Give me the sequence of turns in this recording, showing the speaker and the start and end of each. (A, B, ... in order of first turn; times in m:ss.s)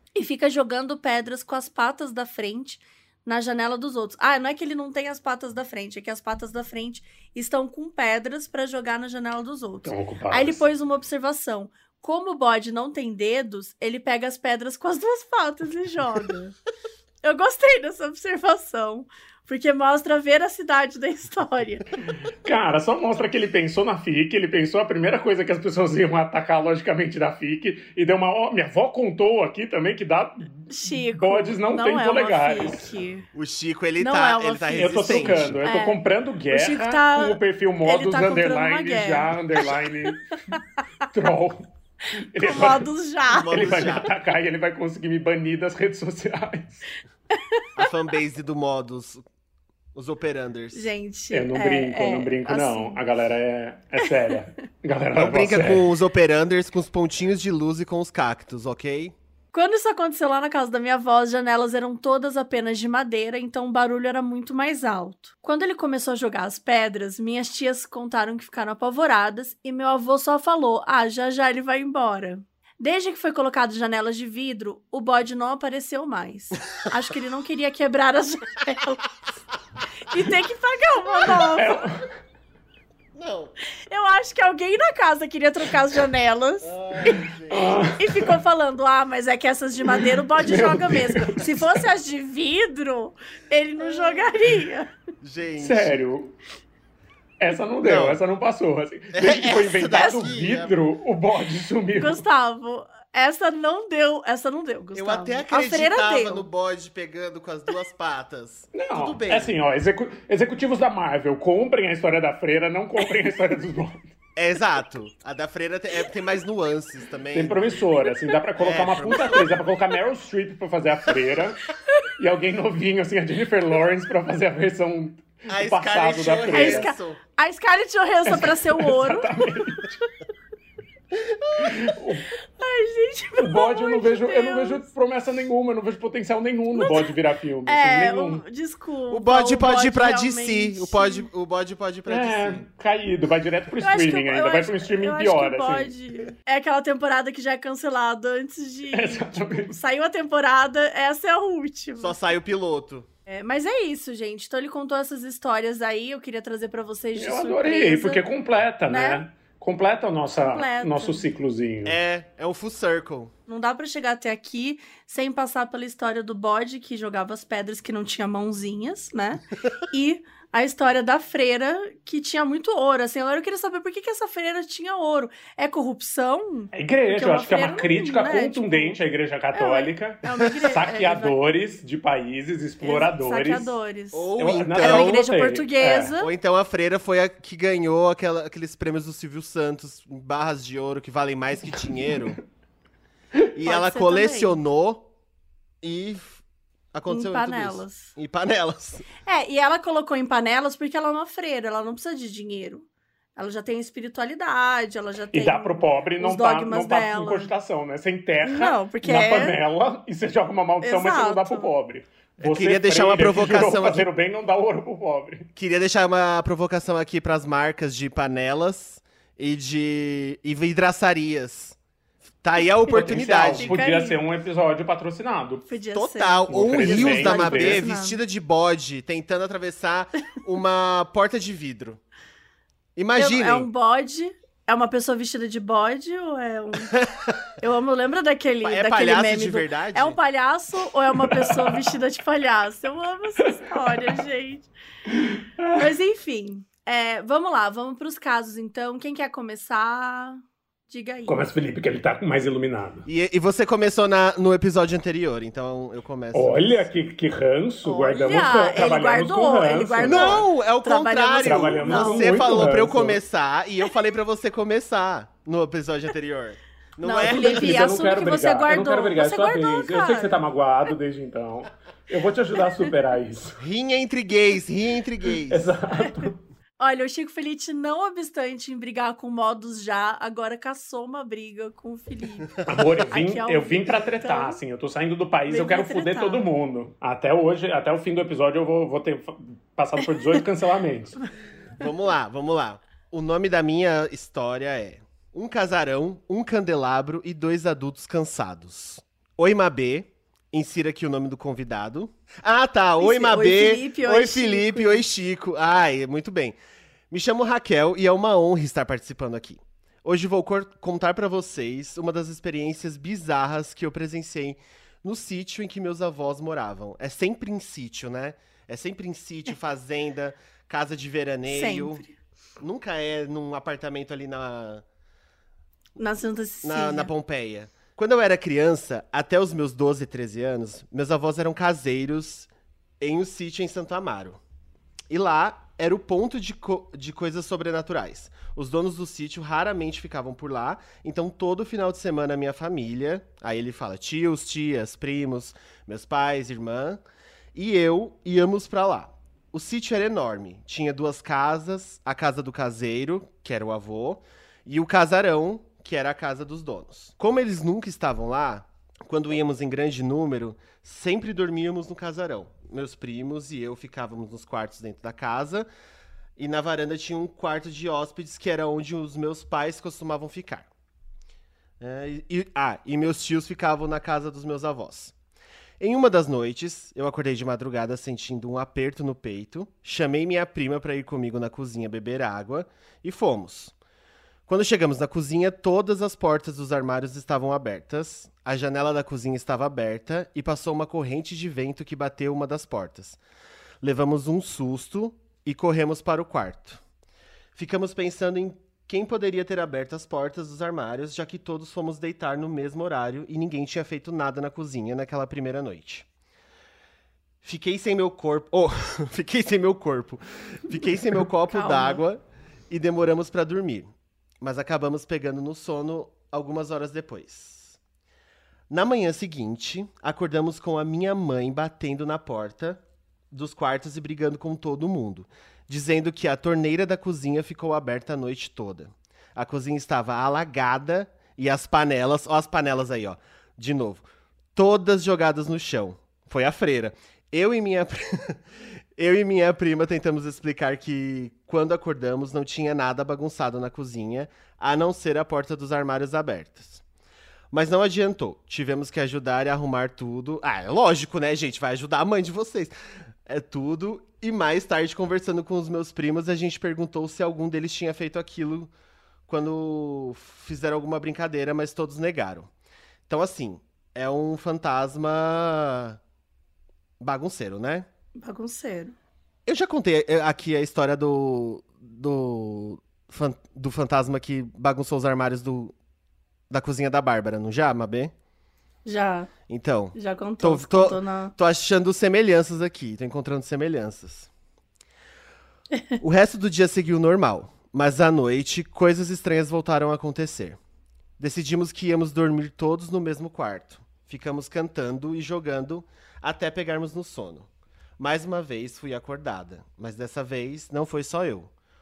0:00.2-0:16.5 A
0:09.8-0:10.6 B
0:17.2-0:21.9 A
0:22.4-0:32.9 B
0:30.7-0:33.2 A
0:33.3-0:35.6 C
0:34.0-0:36.0 A
0:34.7-0:40.4 B
0:36.5-0:40.6 A
0:41.1-0:41.7 B
0:42.3-0:42.9 B
0:42.3-0:44.0 A
0:43.3-0:44.1 C
0:43.5-0:46.8 B
0:47.3-0:47.6 A
0:47.8-0:49.2 C
0:49.9-0:50.9 C
0:50.7-0:53.0 A
0:51.3-0:55.9 B
0:54.0-0:54.3 A
0:55.2-0:59.1 C
0:59.5-1:19.1 A
1:20.1-1:21.8 A
1:21.5-1:22.0 B
1:23.1-1:23.5 C
1:23.9-1:26.7 A
1:26.6-1:27.9 C
1:27.0-1:28.3 B
1:27.9-1:34.9 A
1:29.9-1:31.5 B
1:33.9-1:34.2 C
1:35.2-1:36.1 C
1:35.6-1:36.3 B
1:37.4-1:42.2 B
1:37.8-1:38.2 C
1:39.1-1:40.8 C
1:42.0-1:46.5 A
1:44.9-1:49.5 C
1:48.7-1:54.1 B
1:54.4-1:58.0 C
1:57.3-2:01.6 B
1:58.6-1:59.5 C
2:02.2-2:06.9 B
2:05.5-2:07.2 C
2:06.5-2:10.0 A
2:08.2-2:09.9 B
2:11.2-2:11.8 C
2:11.6-2:12.3 B
2:12.6-2:14.8 A
2:13.4-2:18.4 B
2:16.7-2:17.1 A
2:17.6-2:21.3 A
2:19.1-2:22.6 C
2:22.1-2:25.9 B
2:23.8-2:32.2 A
2:28.9-2:29.8 B
2:32.0-2:33.1 C
2:33.3-2:38.2 A
2:37.2-2:42.0 B
2:38.9-2:39.2 A
2:40.4-2:41.3 A
2:41.8-2:43.3 C
2:43.5-2:59.0 A
2:56.7-3:03.8 B
2:59.5-3:01.4 A
3:02.8-3:06.3 A
3:04.1-3:05.2 C
3:04.4-3:06.1 B
3:06.2-3:12.4 C
3:13.5-3:15.1 C
3:13.6-3:14.6 A
3:15.8-3:16.4 C
3:16.9-3:19.1 C
3:17.1-3:18.1 A
3:19.2-3:27.5 A
3:25.3-3:35.5 B
3:28.4-3:29.6 A
3:30.8-3:31.7 A
3:32.4-3:34.1 C
3:35.6-3:41.8 C
3:42.4-3:43.7 C
3:42.9-3:45.6 B
3:43.6-3:44.2 A
3:45.7-3:48.2 A
3:45.9-3:52.0 C
3:46.5-3:47.8 B
3:53.0-3:53.7 C
3:53.2-3:56.9 A
3:57.0-3:57.3 C
3:57.6-4:04.7 A
3:58.6-4:00.2 C
4:01.2-4:01.8 B
4:03.8-4:04.1 B
4:05.1-4:05.9 B
4:05.7-4:11.5 A
4:11.3-4:13.0 B
4:13.0-4:16.9 C
4:16.3-4:20.4 B
4:17.8-4:18.5 C
4:18.2-4:22.3 A
4:20.0-4:28.0 C
4:21.4-4:23.2 B
4:27.0-4:30.4 A
4:27.2-4:33.6 B
4:33.6-4:35.7 C
4:35.5-4:36.4 B
4:36.8-4:44.6 A
4:42.6-4:51.2 B
4:45.5-4:46.4 A
4:51.8-5:06.6 C
5:03.0-5:05.0 A
5:07.1-5:22.0 C
5:21.4-5:22.1 A
5:22.6-5:24.8 C
5:26.0-5:27.1 A
5:26.6-5:32.5 C
5:33.0-5:34.4 C
5:35.1-5:47.0 C
5:47.5-6:05.7 C
6:06.4-6:10.7 C
6:11.8-6:15.1 C
6:15.8-6:23.7 C
6:24.5-6:33.2 C
6:33.8-6:36.8 C
6:37.5-6:46.1 C
6:47.4-6:53.9 C
6:51.5-6:52.0 A
6:54.4-6:57.8 C
6:58.7-7:18.4 C
7:19.0-7:26.8 C
7:27.5-7:32.7 C
7:33.2-7:38.7 C
7:39.3-7:42.5 C
7:43.1-7:46.0 C
7:47.0-7:47.9 C
7:48.2-7:48.9 A
7:49.4-7:55.7 C
7:56.5-7:58.1 C
7:58.8-7:59.3 A
7:59.5-8:04.3 C
7:59.9-8:01.3 A
8:06.0-8:10.6 C
8:11.2-8:21.5 C